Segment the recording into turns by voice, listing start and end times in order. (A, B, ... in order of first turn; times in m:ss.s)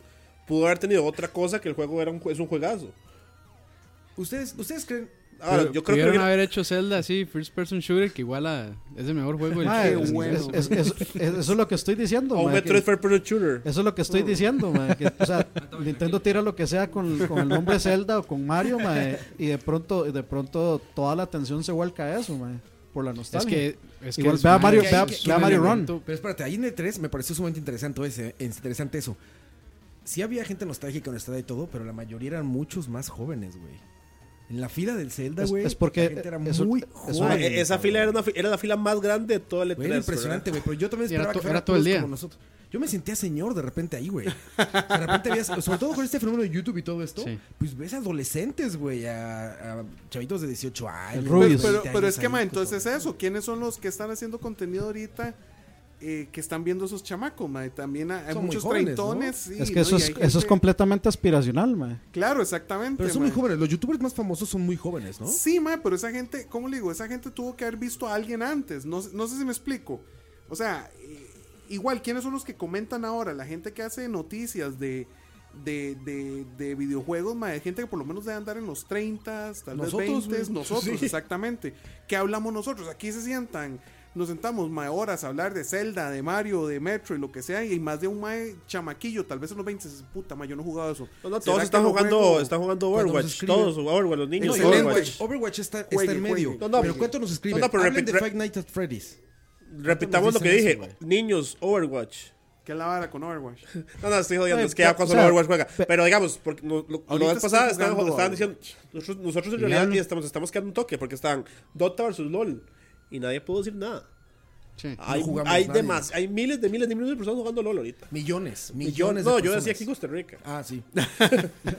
0:00.4-0:02.9 A
0:04.2-0:05.1 B
0:05.4-0:06.3 A
0:05.5-0:10.8 C
0:09.6-0:12.9 D
0:09.6-0:10.9 E
0:12.3-0:14.2 A
0:13.6-0:25.9 D
0:23.3-0:26.1 C
0:24.5-0:29.2 B
0:30.0-0:33.8 B
0:34.5-0:38.2 B
0:35.4-0:37.6 D
0:37.1-0:40.5 A
0:39.8-0:53.0 B
0:41.1-0:42.1 C
0:44.6-0:45.2 E
0:47.2-0:47.4 C
0:51.1-0:51.8 D
0:51.3-0:55.4 E
0:56.0-1:00.6 E
0:58.3-0:59.4 B
0:59.6-1:02.0 D
1:02.1-1:03.4 E
1:03.0-1:05.4 B
1:05.2-1:32.5 E
1:19.7-1:20.5 B
1:20.7-1:21.1 A
1:31.2-1:35.2 A
1:32.9-1:33.8 B
1:34.4-1:35.2 E
1:34.4-1:39.2 B
1:35.8-1:37.1 E
1:36.6-1:38.3 A
1:39.7-1:42.3 A
1:39.8-1:40.9 B
1:42.6-1:43.7 E
1:43.8-1:54.0 A
1:44.5-1:45.9 D
1:47.1-1:48.5 E
1:49.6-1:50.0 D
1:55.0-1:58.1 A
1:55.1-1:56.1 B
1:58.1-1:59.9 B
1:58.8-2:00.4 A
2:00.4-2:00.9 B
2:01.0-2:01.4 E